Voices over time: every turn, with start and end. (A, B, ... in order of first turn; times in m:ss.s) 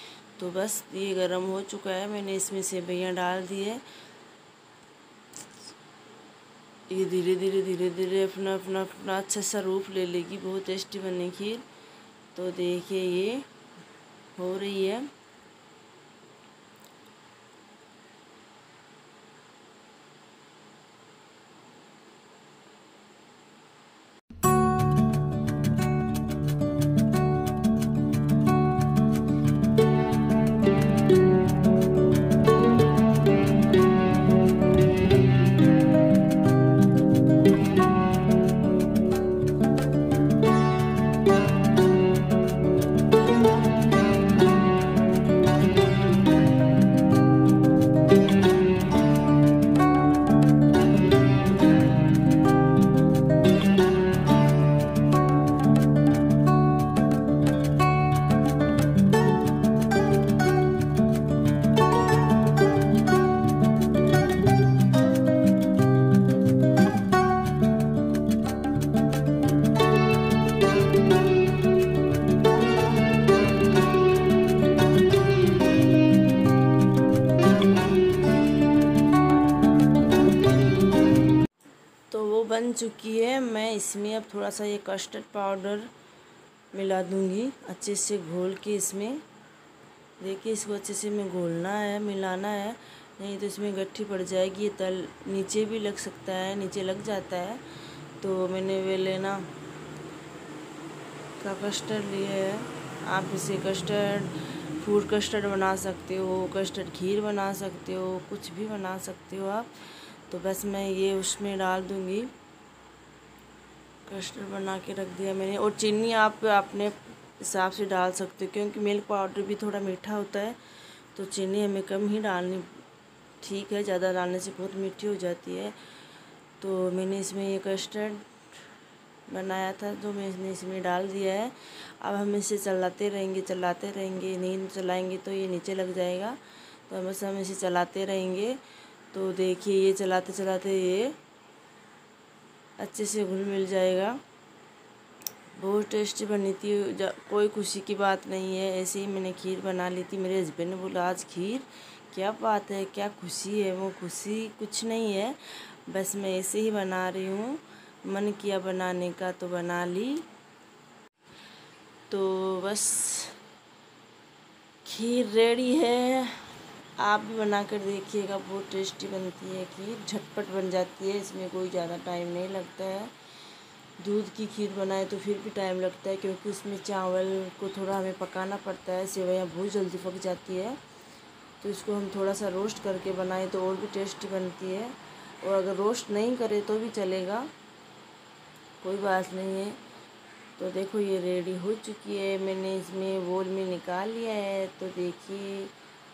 0:00.4-0:03.8 A
0:06.9-0:11.6 A
0:12.3-0:13.5 A
0:14.4-0:15.1 A
1:22.1-1:25.9 A
1:26.7-1:29.2 A
1:30.2-1:37.6 A
1:38.2-1:39.5 A
1:41.4-1:52.3 A
1:54.1-2:00.6 A
2:01.1-2:02.8 A
2:03.4-2:05.8 A
2:06.6-2:08.3 A
2:09.3-2:18.6 A
2:19.1-2:21.2 A
2:22.8-2:24.2 A
2:25.6-2:40.3 A
2:42.1-2:43.4 A
2:44.8-2:53.1 A
2:54.0-3:00.8 A
3:01.6-3:07.5 A
3:08.8-3:09.8 A
3:10.6-3:15.7 A